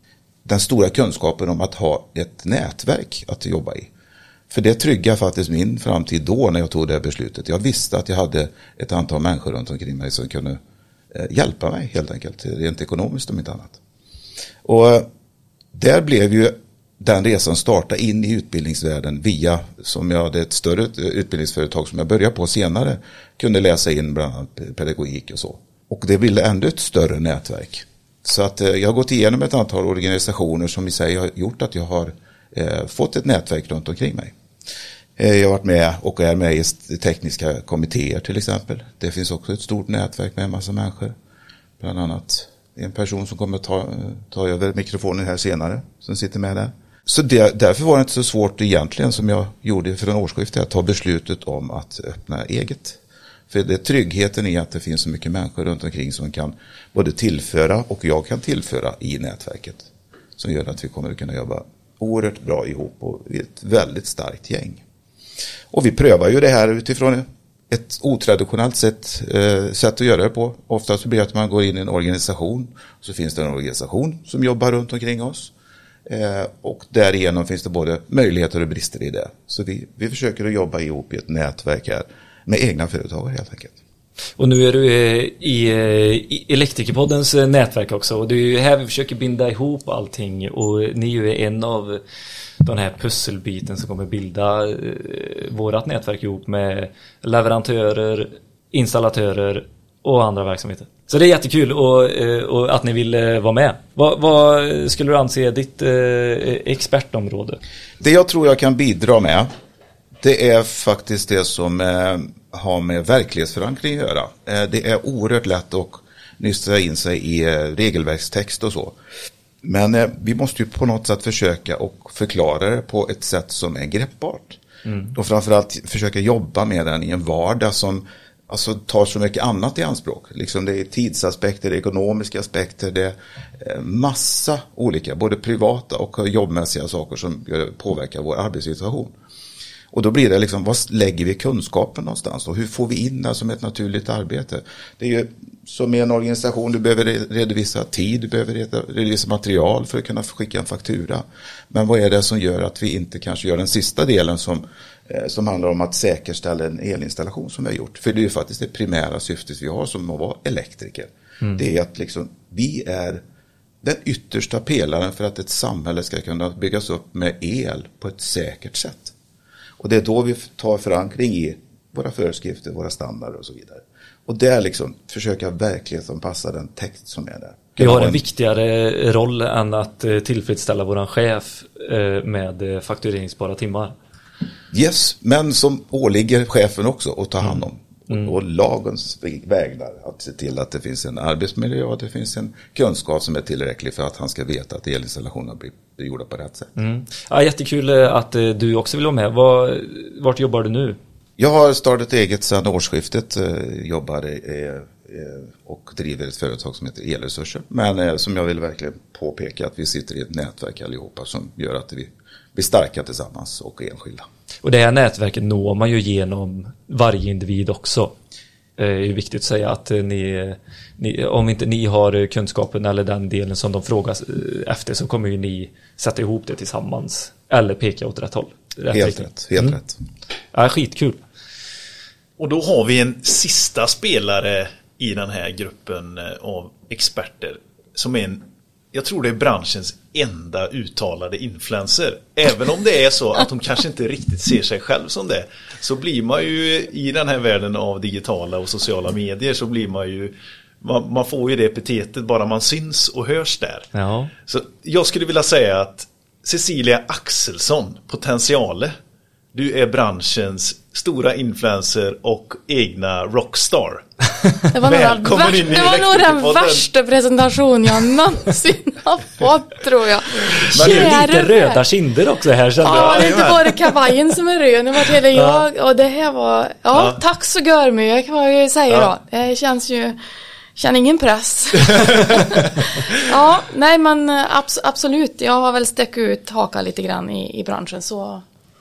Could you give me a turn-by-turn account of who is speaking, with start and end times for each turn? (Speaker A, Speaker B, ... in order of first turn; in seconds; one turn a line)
Speaker A: 0.5-3.9
Speaker A: 4.5-10.6
Speaker A: 11.1-13.8
Speaker A: 14.6-15.1
Speaker A: 15.7-34.3
Speaker A: 35.2-41.1
Speaker A: 41.8-64.8
Speaker A: 65.7-75.5
Speaker A: 76.1-83.8
Speaker B: 84.4-92.0
Speaker B: 92.6-107.6
Speaker A: 108.0-109.5
Speaker A: 110.2-119.0
Speaker A: 119.6-124.6
Speaker B: 124.9-125.1
Speaker A: 125.1-139.2
Speaker A: 139.9-163.2
Speaker A: 163.8-169.1
Speaker A: 169.8-178.2
Speaker B: 177.8-183.9
Speaker A: 184.7-196.7
Speaker B: 187.4-188.3
Speaker B: 196.8-201.0
Speaker A: 201.4-214.2
Speaker B: 214.6-218.2
Speaker B: 218.8-229.8
Speaker A: 228.9-230.0
Speaker B: 230.5-231.2
Speaker C: 232.4-253.9
Speaker B: 253.9-254.3
Speaker C: 254.5-258.9
Speaker C: 259.5-264.0
Speaker D: 264.7-271.8
Speaker C: 264.8-266.9
Speaker C: 270.6-271.2
Speaker B: 270.8-273.5
Speaker D: 272.8-280.2
Speaker C: 272.9-273.8
Speaker B: 275.3-275.6
Speaker C: 276.9-277.2
Speaker D: 280.8-288.4
Speaker C: 281.9-282.5